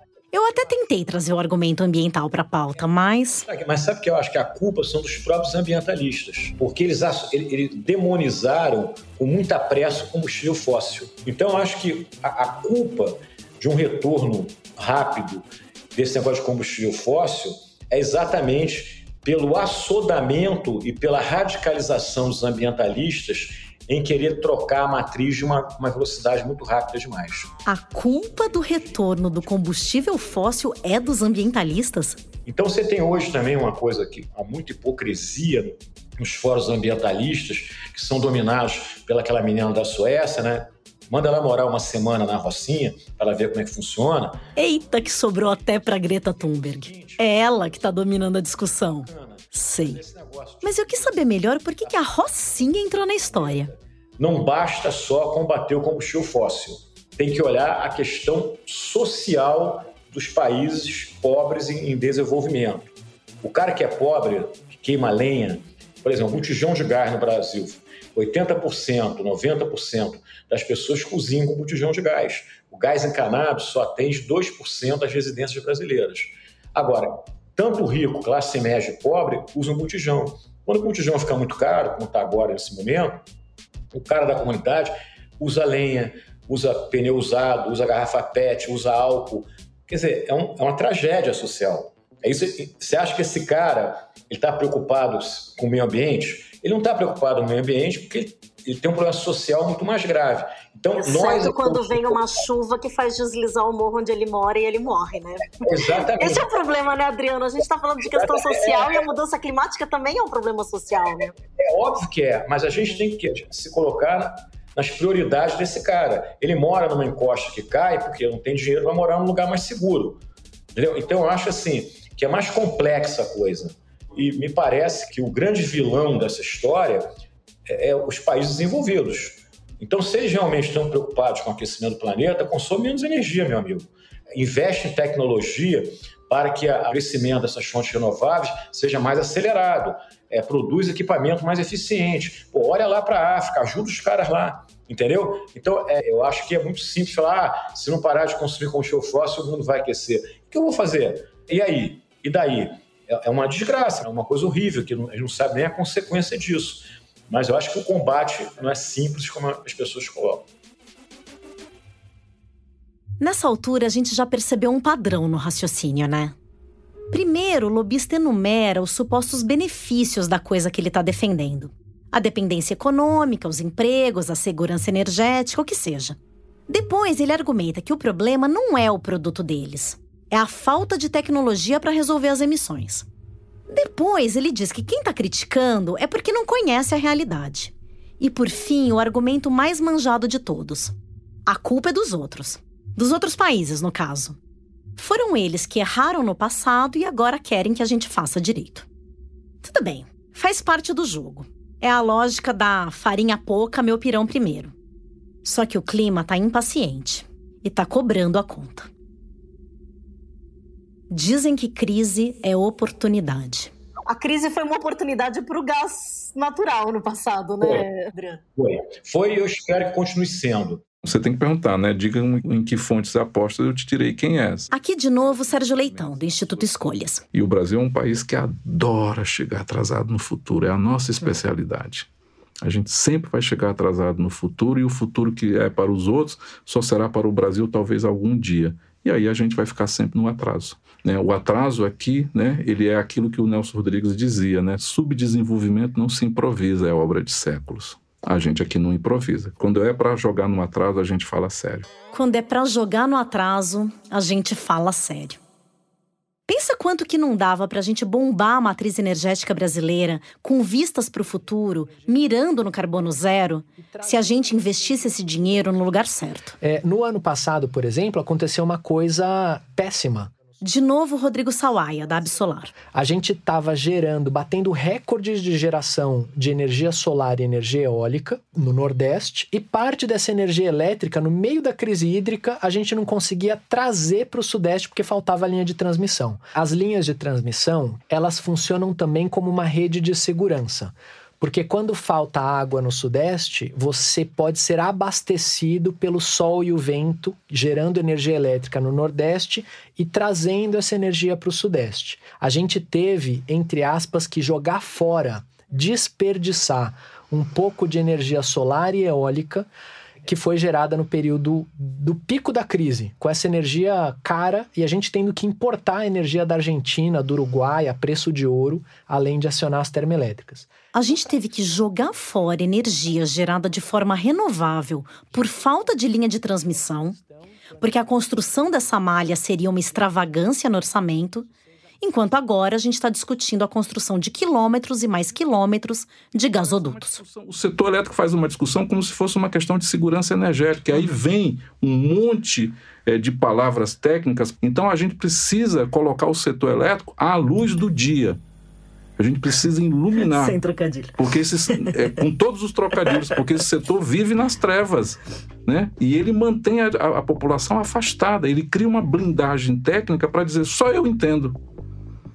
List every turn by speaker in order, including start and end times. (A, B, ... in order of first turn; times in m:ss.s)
0:00.3-0:03.4 A
0:03.4-0:27.6 B
0:27.6-0:32.2 A
0:28.3-0:30.2 B
0:32.4-0:44.4 B
0:44.6-0:50.0 A
0:46.3-1:23.2 B
0:50.6-0:53.7 A
1:23.9-1:42.2 B
1:41.0-1:51.3 C
1:45.6-1:46.5 B
1:48.1-1:49.0 B
1:51.6-2:00.2 B
2:00.7-2:07.1 B
2:07.7-2:40.4 B
2:43.2-2:46.3 A
2:47.1-2:56.2 A
2:56.7-3:03.1 A
3:03.7-3:10.9 A
3:11.5-3:14.4 A
3:15.0-3:18.9 A
3:19.6-3:24.7 A
3:25.4-3:28.9 A
3:31.1-3:33.7 A
3:34.1-3:38.4 C
3:38.6-3:40.8 B
3:41.0-3:44.7 D
3:44.7-3:47.2 A
3:45.2-3:52.1 D
3:52.6-4:11.9 D
4:12.1-4:15.4 A
4:16.5-4:26.6 A
4:24.0-4:24.5 E
4:26.6-4:30.3 E
4:30.6-4:32.7 A
4:32.9-5:09.7 E
5:10.2-5:20.7 E
5:20.9-5:27.2 A
5:27.8-5:31.5 A
5:32.0-5:37.2 A
5:36.5-5:48.4 D
5:49.2-5:50.6 D
5:50.2-5:51.1 A
5:51.2-6:01.6 D